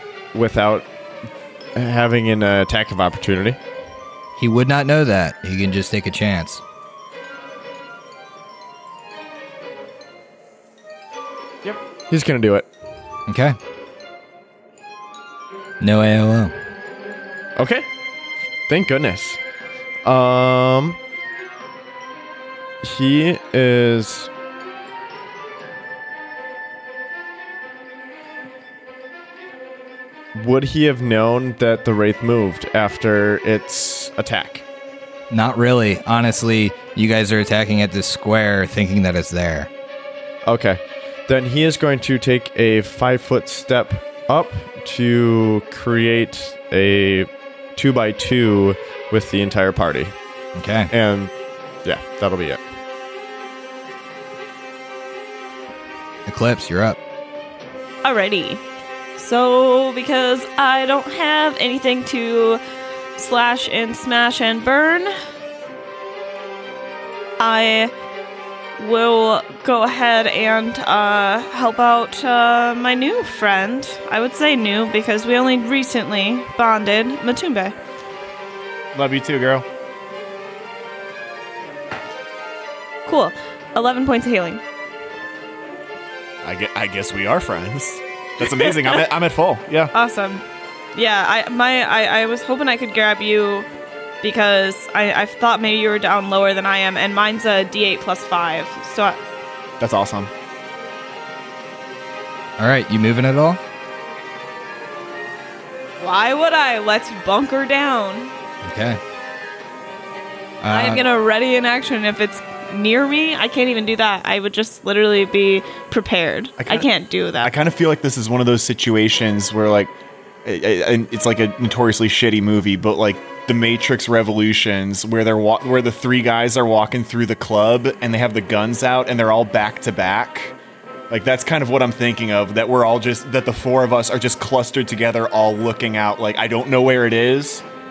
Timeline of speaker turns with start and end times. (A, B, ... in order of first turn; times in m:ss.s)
0:00.3-0:00.9 A
0:01.8-0:03.6 A
0:04.4-0:06.6 B
0:11.6-0:12.7 A
0:13.3-0:13.6 B
0:15.8-0:16.5 B
0:17.6-0:17.9 A
0:18.7-0:19.4 A
0:20.0-0:21.0 A
0:22.8-0:24.3 A
0:30.3-0:34.6 A
0:35.3-0:39.7 B
0:40.4-0:50.2 A
0:50.6-0:50.9 B
0:50.9-0:51.3 A
0:51.8-0:52.6 A
0:56.3-0:57.0 B
0:58.0-0:58.6 C
0:59.2-1:02.6 C
1:03.2-1:05.1 C
1:07.4-1:07.9 C
1:08.8-1:17.7 C
1:18.9-1:19.7 D
1:23.1-1:24.6 C
1:26.4-1:29.9 D
1:29.9-1:30.4 C
1:31.0-1:33.7 C
1:34.2-1:39.2 C
1:39.8-1:40.3 D
1:42.6-1:43.6 B
1:46.0-1:48.3 C
1:48.6-1:49.0 B
1:50.6-1:51.0 B
1:50.7-1:57.5 C
1:56.6-1:56.9 D
1:57.4-1:59.9 D
2:00.4-2:10.5 D
2:11.1-2:17.6 D